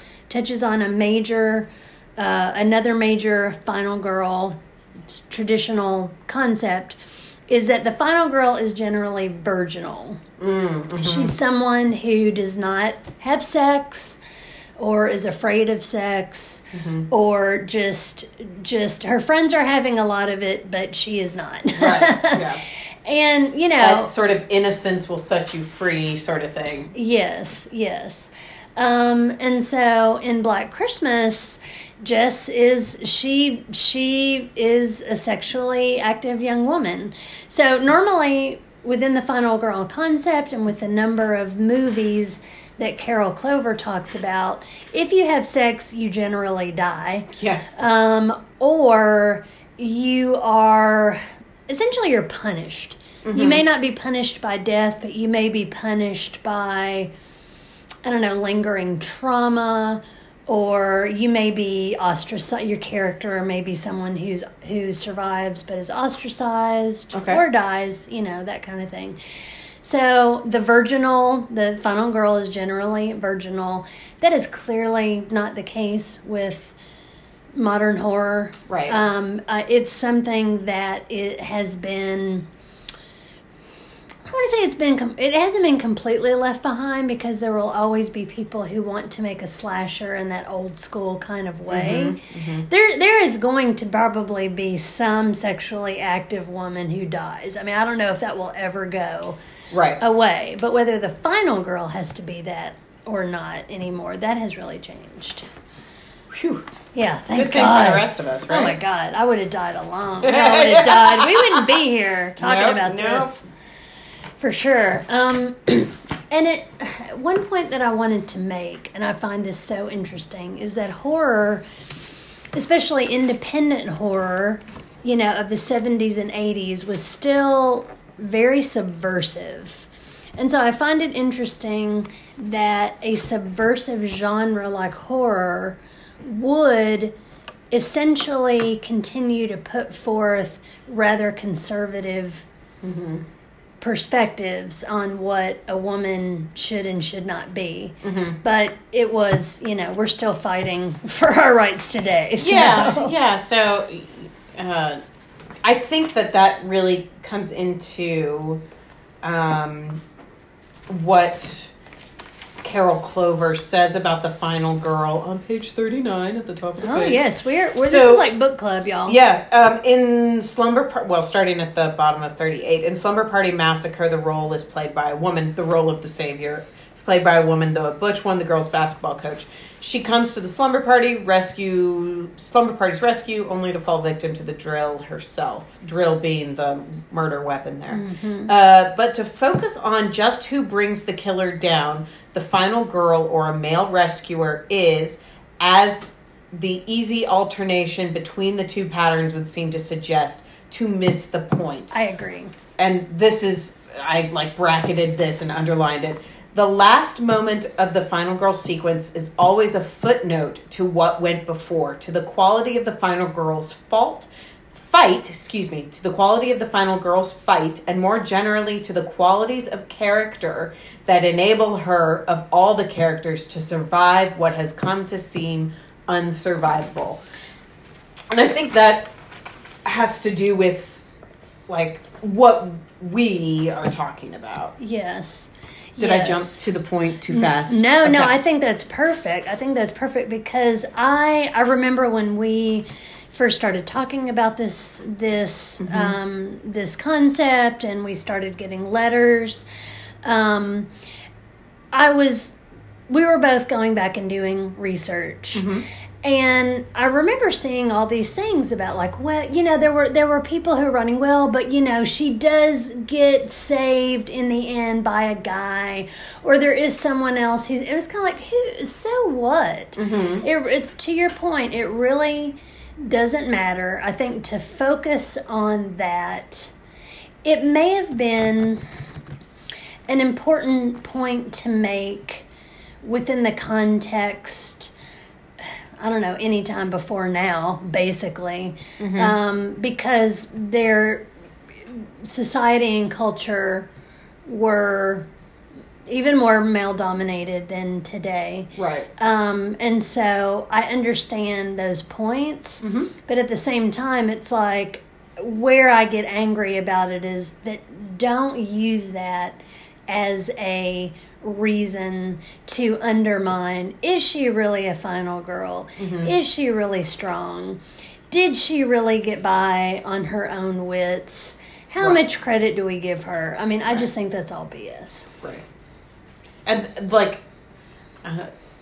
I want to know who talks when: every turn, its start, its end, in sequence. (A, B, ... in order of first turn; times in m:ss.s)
0:00.3-0:04.6 A
0:05.3-0:10.2 A
0:10.4-0:11.3 B
0:11.0-0:14.2 A
0:14.8-0:22.5 A
0:16.7-0:17.1 B
0:21.8-0:22.6 B
0:23.0-0:24.1 A
0:23.8-0:26.9 B
0:26.9-0:57.1 A
0:47.3-0:47.7 B
0:53.2-0:53.6 B
0:58.0-1:09.2 A
1:07.1-1:07.4 B
1:09.8-1:16.7 A
1:17.5-1:22.5 A
1:18.7-1:19.0 B
1:24.3-1:39.4 A
1:31.7-1:32.7 B
1:39.7-1:40.0 B
1:40.0-1:45.5 A
1:46.3-1:46.6 B
1:46.9-1:53.4 A
1:47.3-1:48.8 B
1:50.2-1:51.7 B
1:52.4-1:53.4 B
1:54.4-2:01.6 A
2:02.5-2:17.1 A
2:17.7-2:22.4 A
2:22.8-2:23.2 B
2:23.8-2:33.1 A
2:28.0-2:28.4 B
2:32.4-2:35.0 B
2:35.6-2:38.6 B
2:39.2-2:40.0 B
2:40.9-2:41.7 B
2:42.6-2:47.2 B
2:46.8-2:49.2 A
2:47.8-2:48.2 B
2:49.0-3:21.9 B
3:07.9-3:08.5 A
3:21.9-3:22.5 A
3:22.8-3:47.2 B
3:48.3-3:49.1 B
3:49.8-3:51.0 B
3:51.7-3:54.7 B
3:54.8-3:56.6 A
3:56.0-3:58.4 B
3:57.3-4:09.6 A
4:05.8-4:06.2 B
4:10.2-4:10.9 A
4:11.9-4:12.5 A
4:13.1-4:15.7 A
4:15.5-4:15.8 B
4:16.2-4:36.7 A
4:30.0-4:30.4 B
4:37.4-4:38.8 A
4:40.1-4:42.5 A
4:43.0-4:44.9 A
4:46.0-4:51.3 A
4:49.0-4:49.4 B
4:51.9-4:53.9 A
4:54.4-4:55.3 A
4:56.1-5:25.3 A
4:58.8-4:59.1 B
5:02.8-5:03.1 B
5:16.0-5:16.3 B
5:26.6-5:27.4 B
5:28.2-5:28.5 B